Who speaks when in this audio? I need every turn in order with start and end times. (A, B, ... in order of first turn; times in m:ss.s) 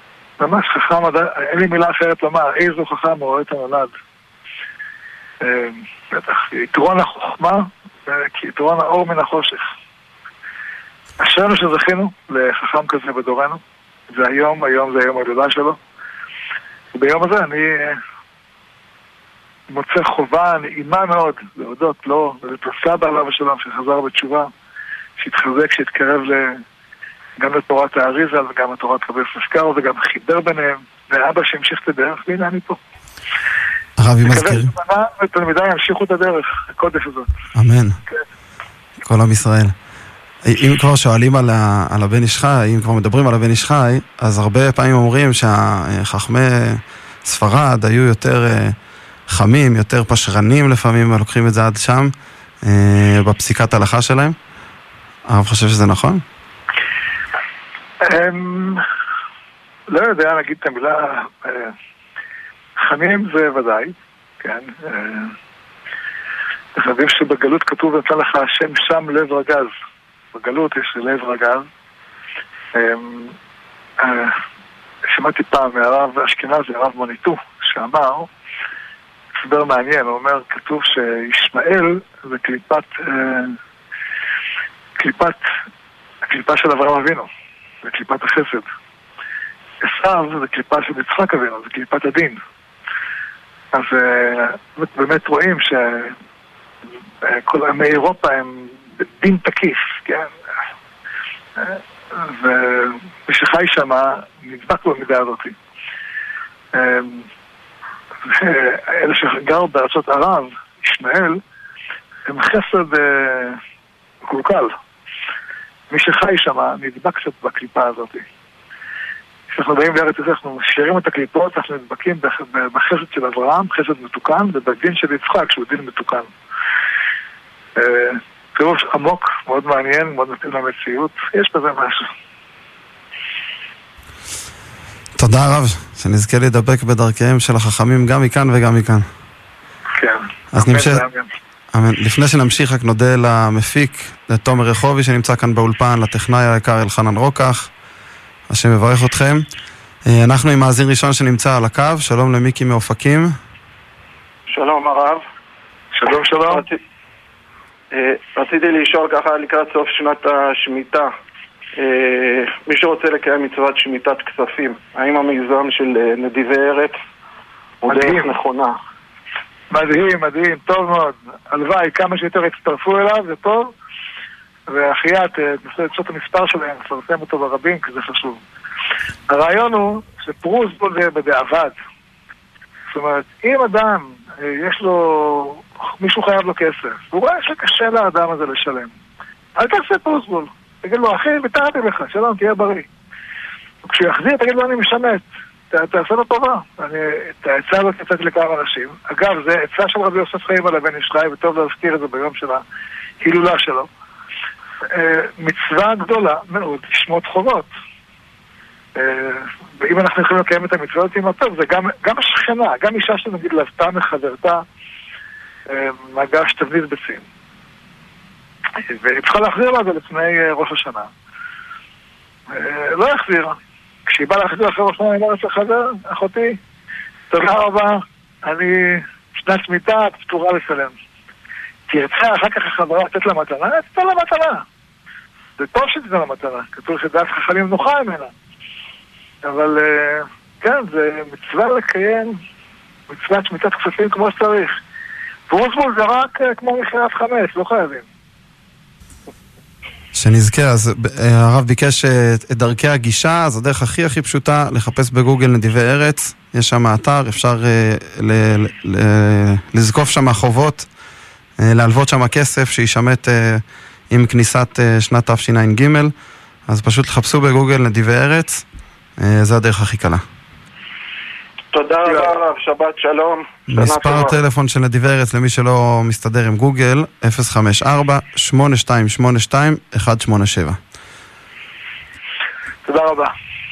0:00.4-0:03.9 A
0:05.4-0:09.7 A
0:11.2-0:15.8 A
0:16.9-0:18.0 A
0:19.7-0:24.5 A
0:25.2-0:26.6 A
0:27.4-0:32.8 A
0:34.0-0:34.7 B
0:34.2-0:37.3 A
0:37.6-0:38.0 B
0:39.0-0:39.7 B
0:40.4-0:48.8 B
0:49.3-0:52.1 B
0:52.6-0:54.4 B
0:55.3-0:56.2 B
0:58.0-0:58.8 A
0:59.9-1:01.7 A
1:02.8-1:05.3 A
1:06.7-1:09.7 A
1:10.3-1:11.7 A
1:12.7-1:13.4 A
1:14.0-1:14.4 A
1:15.1-1:18.3 A
1:19.4-1:23.6 A
1:25.0-1:25.4 A
1:26.2-1:27.3 A
1:27.8-1:28.7 A
1:29.8-1:32.4 A
1:33.7-1:36.2 A
1:37.2-1:40.3 A
1:41.6-1:45.5 A
1:46.7-1:47.3 A
1:48.2-1:51.4 A
1:52.3-1:53.6 A
1:54.2-1:54.7 A
1:55.9-1:58.2 A
1:59.5-2:06.3 A
2:07.8-2:12.1 A
2:15.2-2:19.1 B
2:20.0-2:21.3 A
2:20.5-2:21.0 B
2:21.7-2:27.7 B
2:28.5-2:29.4 B
2:30.0-2:33.4 B
2:34.5-2:35.2 C
2:35.9-2:36.6 A
2:36.5-2:36.8 C
2:37.9-2:41.1 C
2:41.8-2:46.9 C
2:47.8-2:48.8 C
2:47.9-2:48.3 A
2:49.7-2:53.7 A
2:54.7-2:58.4 A
2:59.3-3:01.7 A
3:02.9-3:08.9 A
3:09.6-3:12.9 A
3:13.8-3:22.6 A
3:23.2-3:23.9 A
3:24.8-3:27.7 A
3:28.9-3:34.6 A
3:35.7-3:37.2 A
3:38.8-3:41.1 A
3:42.5-3:46.6 A
3:47.3-3:50.9 A
3:51.9-3:54.6 A
3:55.6-3:58.3 A
3:59.4-4:02.4 A
4:03.1-4:04.8 A
4:05.5-4:08.0 A
4:10.1-4:20.9 B
4:21.6-4:26.1 B
4:26.7-4:28.6 B
4:29.2-4:30.2 B
4:31.7-4:34.4 C
4:33.7-4:40.8 B
4:42.8-4:43.3 A